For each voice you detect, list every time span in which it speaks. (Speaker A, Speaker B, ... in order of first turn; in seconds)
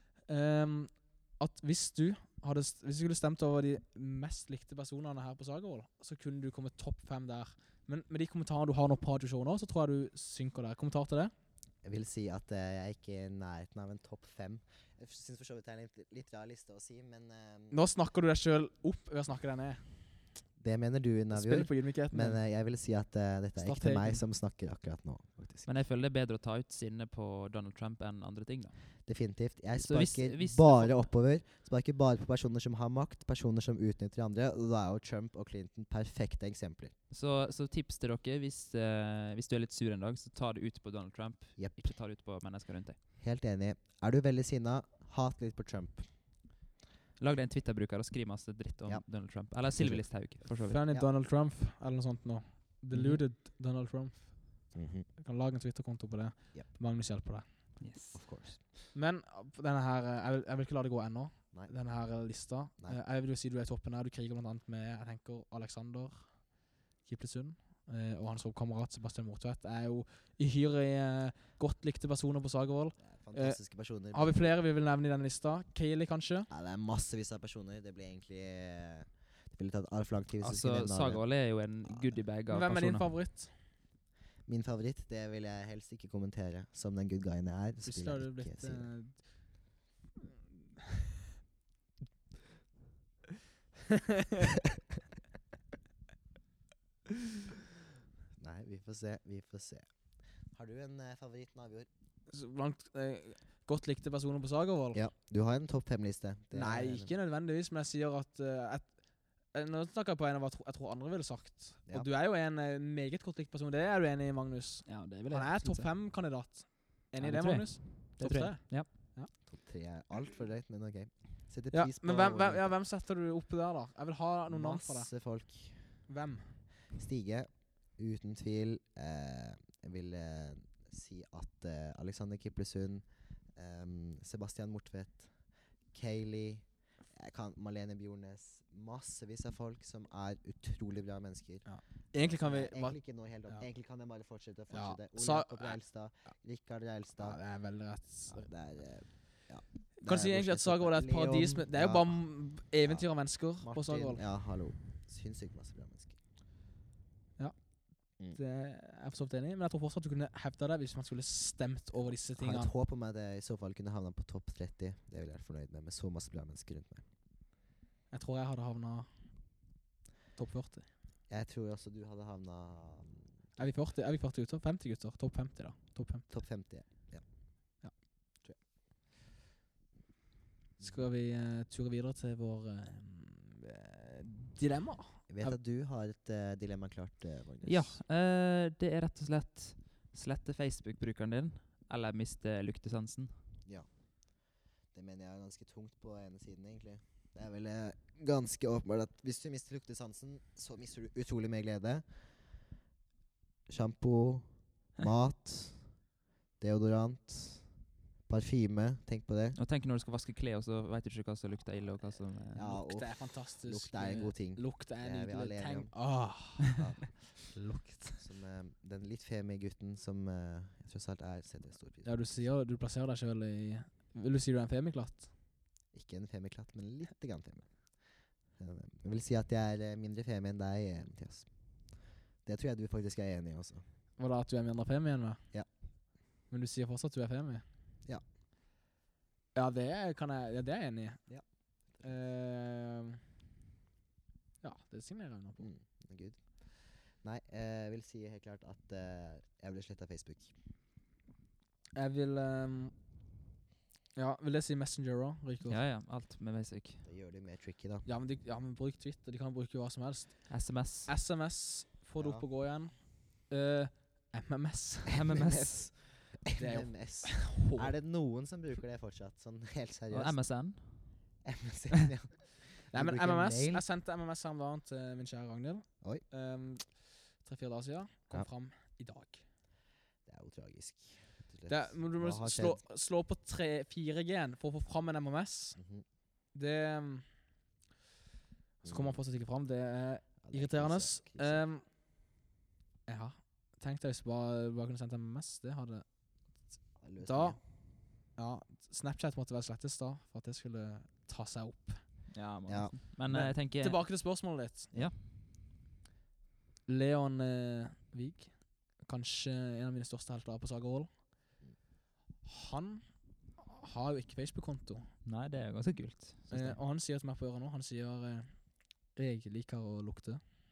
Speaker A: 0.3-11.3, 17.7-19.8, 21.3-22.4, 23.6-24.2, 50.6-57.4, 58.9-73.6, 74.1-76.5, 82.5-83.5, 87.8-89.3, 93.9-94.4, 102.3-105.0, 106.5-119.3, 121.7-125.1, 126.1-126.5, 141.6-143.7, 144.7-145.8, 147.2-148.5, 150.0-154.2, 158.3-162.7, 168.1-169.1, 170.3-170.9, 173.6-176.3, 180.8-185.6, 212.6-218.2, 222.0-225.3, 234.2-235.4, 236.5-237.6, 239.5-241.3, 242.0-243.2, 244.6-245.7, 251.9-252.9, 254.2-255.8, 258.0-265.2, 266.6-267.9, 272.9-279.4, 281.7-285.8, 286.5-287.2, 288.8-291.8, 293.1-296.0, 297.2-297.6, 298.4-302.0, 303.3-304.9, 306.9-311.1, 312.4-313.0, 313.6-315.1, 316.5-318.5, 319.1-320.4
Speaker B: 11.8-17.7, 20.6-25.7, 29.1-36.9, 41.6-41.8, 43.2-46.1, 48.9-51.1, 52.9-53.2, 54.7-55.1, 58.1-58.6, 73.0-74.4, 76.5-81.2, 84.5-88.9, 98.4-99.9, 100.5-101.9, 104.9-107.1, 119.4-122.7, 124.5-125.8, 126.9-135.3, 135.9-147.4, 148.3-152.2, 153.6-156.2, 162.4-167.0, 171.3-173.3, 176.3-177.2, 185.3-188.0, 194.9-202.0, 203.7-205.9, 206.6-207.7, 208.3-209.6, 212.5-215.9, 216.8-217.2, 218.2-222.4, 225.9-227.7, 228.6-231.5, 232.4-233.8, 241.3-242.0, 245.6-246.6, 247.2-250.5, 257.0-258.0, 262.2-262.4, 265.2-270.4, 271.4-273.8, 280.2-282.8, 285.8-286.0, 288.8-289.2, 290.4-291.6, 297.0-297.6, 302.7-302.9
Speaker C: 25.6-28.8, 29.7-31.0, 37.1-43.0, 47.2-50.8, 57.8-58.2, 80.4-83.1, 114.8-115.9, 117.2-118.9, 187.6-193.3, 209.6-212.7, 255.7-257.0, 260.5-261.1, 265.1-265.9, 270.1-271.1, 302.3-304.0, 315.2-316.8